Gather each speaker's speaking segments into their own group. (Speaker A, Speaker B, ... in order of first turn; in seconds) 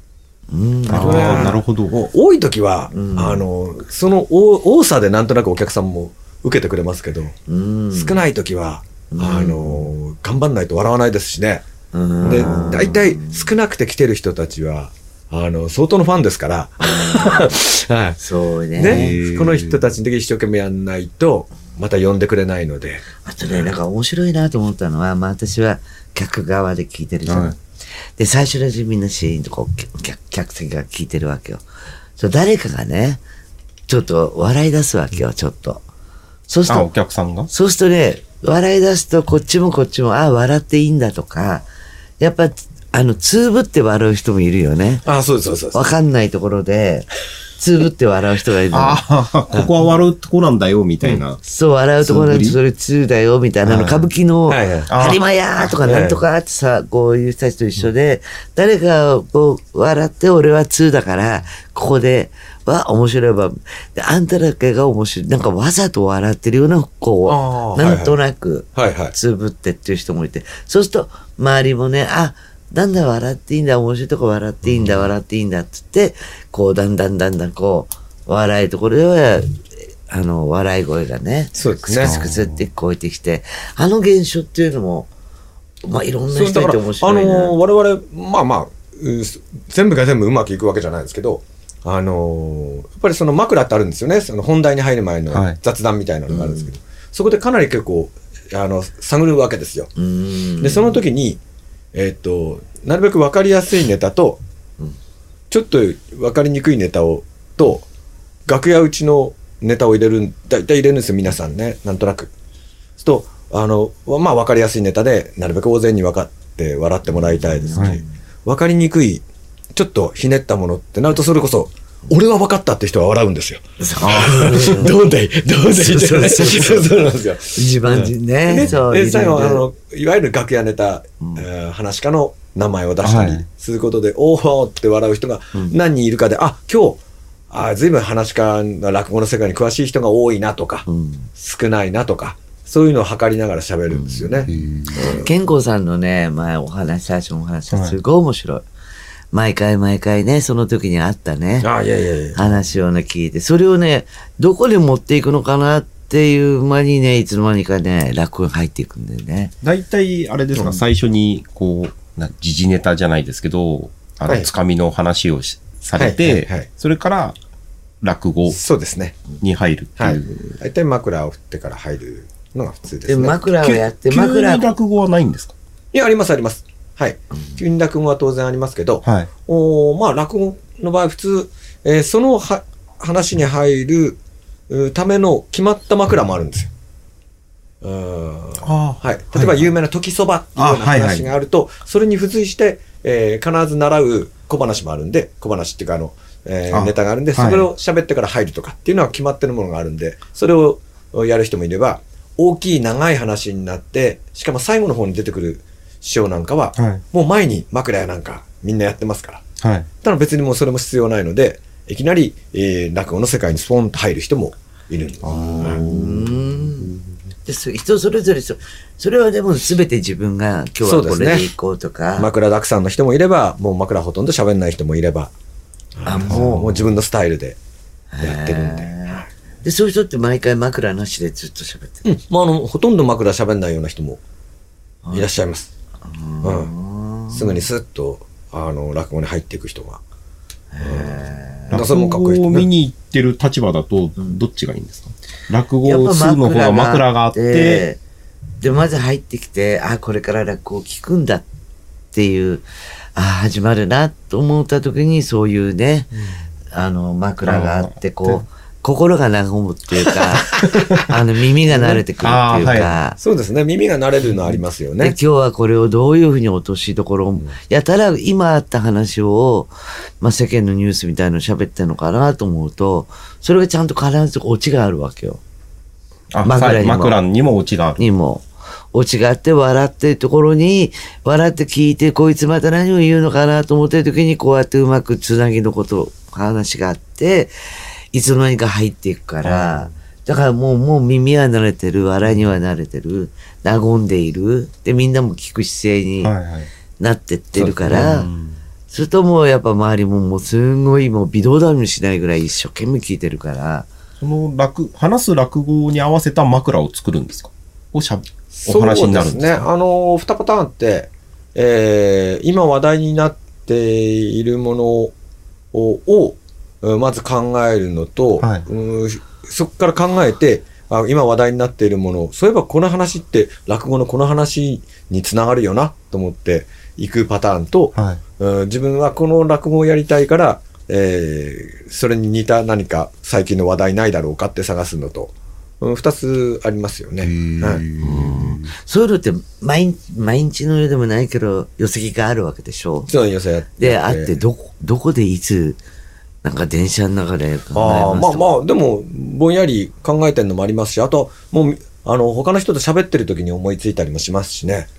Speaker A: 0.5-1.6, 2.9-3.4, 7.5-8.2, 9.1-9.9, 11.9-13.5, 16.8-17.5, 18.2-19.1, 23.2-27.6, 28.2-31.6, 32.2-33.2, 33.9-35.8, 36.5-36.9, 37.5-41.6, 42.2-45.0, 45.7-49.0, 51.4-85.1, 85.8-87.5, 96.3-96.7, 100.0-101.0, 117.1-118.0, 123.8-124.9, 125.7-127.0, 127.5-129.7, 140.9-141.3, 143.9-148.7, 149.3-151.7, 152.3-159.5, 173.1-174.7, 215.3-216.9, 217.4-222.3, 226.1-226.8, 228.1-232.1, 236.0-237.6, 240.7-241.7, 245.8-248.0, 248.6-251.4, 252.1-252.6, 253.2-256.1, 256.7-263.2, 265.0-275.4, 276.4-277.2, 278.0-287.5, 288.1-296.3, 297.0-298.3, 298.9-303.9, 338.0-343.1, 343.8-345.8, 346.4-348.5
Speaker B: 0.9-7.3, 7.9-11.7, 12.2-18.2, 18.7-23.8, 45.0-45.9, 54.5-55.0, 55.8-56.2, 67.2-68.2, 68.7-69.1, 81.5-82.2, 86.3-99.9, 100.6-101.4, 101.9-104.4, 105.5-107.8, 108.5-112.3, 113.0-119.2, 119.7-145.3, 151.6-152.4, 165.9-166.7, 168.5-169.2, 170.0-173.4, 175.9-186.7, 187.8-209.4, 210.0-215.9, 220.8-221.5, 222.2-225.3, 225.9-227.6, 228.2-229.3, 232.0-234.2, 235.1-235.7, 236.4-236.7, 237.3-240.0, 240.8-242.7, 261.7-262.0, 263.2-265.2, 308.5-315.1, 315.7-337.8, 343.1-344.4, 347.7-354.9
Speaker C: 0.9-1.9, 18.9-19.9, 27.2-27.5, 36.7-37.5, 48.7-51.4, 52.0-52.6, 53.6-54.1, 54.9-55.8, 74.7-75.0, 82.0-82.6, 95.3-95.6, 117.7-118.0, 124.0-124.6, 133.0-133.5, 144.5-145.1, 147.7-148.0, 159.6-167.4, 168.0-168.6, 169.4-170.5, 173.6-175.5, 179.0-179.3, 188.6-189.7, 190.6-191.3, 196.7-197.7, 206.8-207.0, 209.6-209.9, 215.2-217.2, 226.3-226.8, 241.7-247.8, 257.4-258.4, 260.7-261.0, 262.2-262.9, 276.3-278.0, 289.4-289.9, 296.2-296.7, 297.6-298.6, 304.2-309.7, 318.4-318.6, 327.9-328.2, 337.2-338.7